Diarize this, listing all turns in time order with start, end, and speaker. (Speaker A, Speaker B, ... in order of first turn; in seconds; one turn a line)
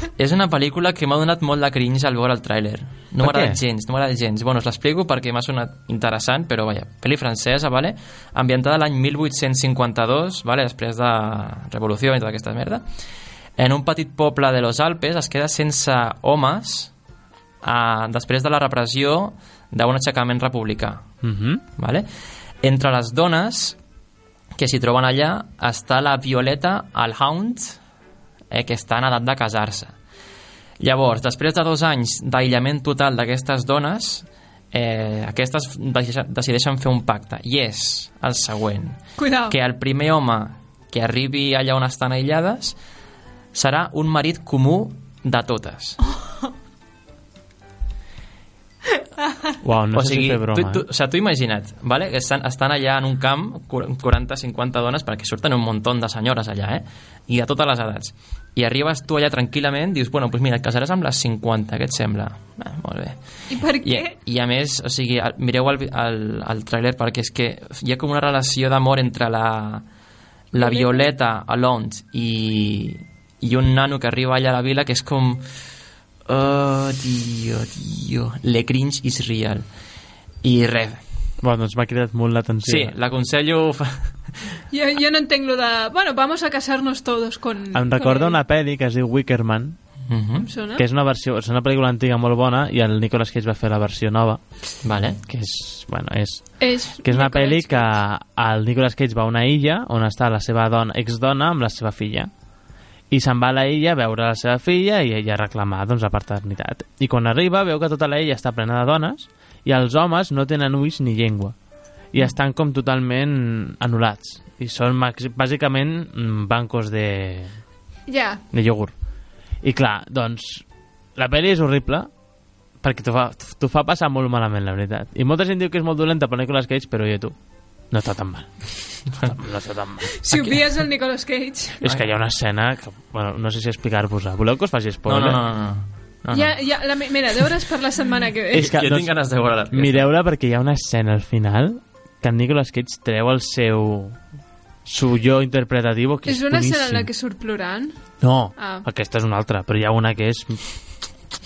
Speaker A: 0.1-12.8
Speaker B: 3.2-3.6
Speaker A: 13.6-16.9
Speaker A: 17.6-21.1
Speaker B: 21.2-21.6
Speaker A: 21.8-22.1
Speaker A: 22.6-23.8
Speaker A: 24.6-27.8
Speaker A: 28.5-29.9
Speaker A: 30.8-42.8
Speaker C: 39.2-39.5
Speaker A: 43.5-46.0
Speaker B: 49.6-50.8
Speaker A: 49.9-69.8
Speaker C: 63.5-64.1
Speaker A: 70.5-75.4
Speaker C: 70.5-71.0
Speaker A: 76.3-79.7
Speaker A: 80.4-81.0
Speaker B: 81.4-82.9
Speaker A: 82.6-84.1
Speaker C: 84.7-88.4
Speaker B: 87.7-89.8
Speaker A: 90.1-90.5
Speaker C: 90.4-90.8
Speaker B: 90.8-94.4
Speaker A: 94.8-95.2
Speaker B: 95.3-102.3
Speaker C: 96.6-98.0
Speaker B: 103.1-111.5
Speaker B: 112.1-117.5
Speaker C: 118.1-118.4
Speaker B: 118.5-118.9
Speaker B: 119.6-122.1
Speaker B: 122.8-127.3
Speaker B: 127.9-130.1
Speaker C: 130.2-131.8
Speaker B: 131.8-135.4
Speaker A: 135.1-136.5
Speaker C: 136.3-138.7
Speaker B: 138.5-139.1
Speaker A: 138.6-140.1
Speaker B: 139.7-144.2
Speaker B: 144.8-147.1
Speaker C: 146.3-147.9
Speaker B: 148.2-150.6
Speaker C: 148.6-148.8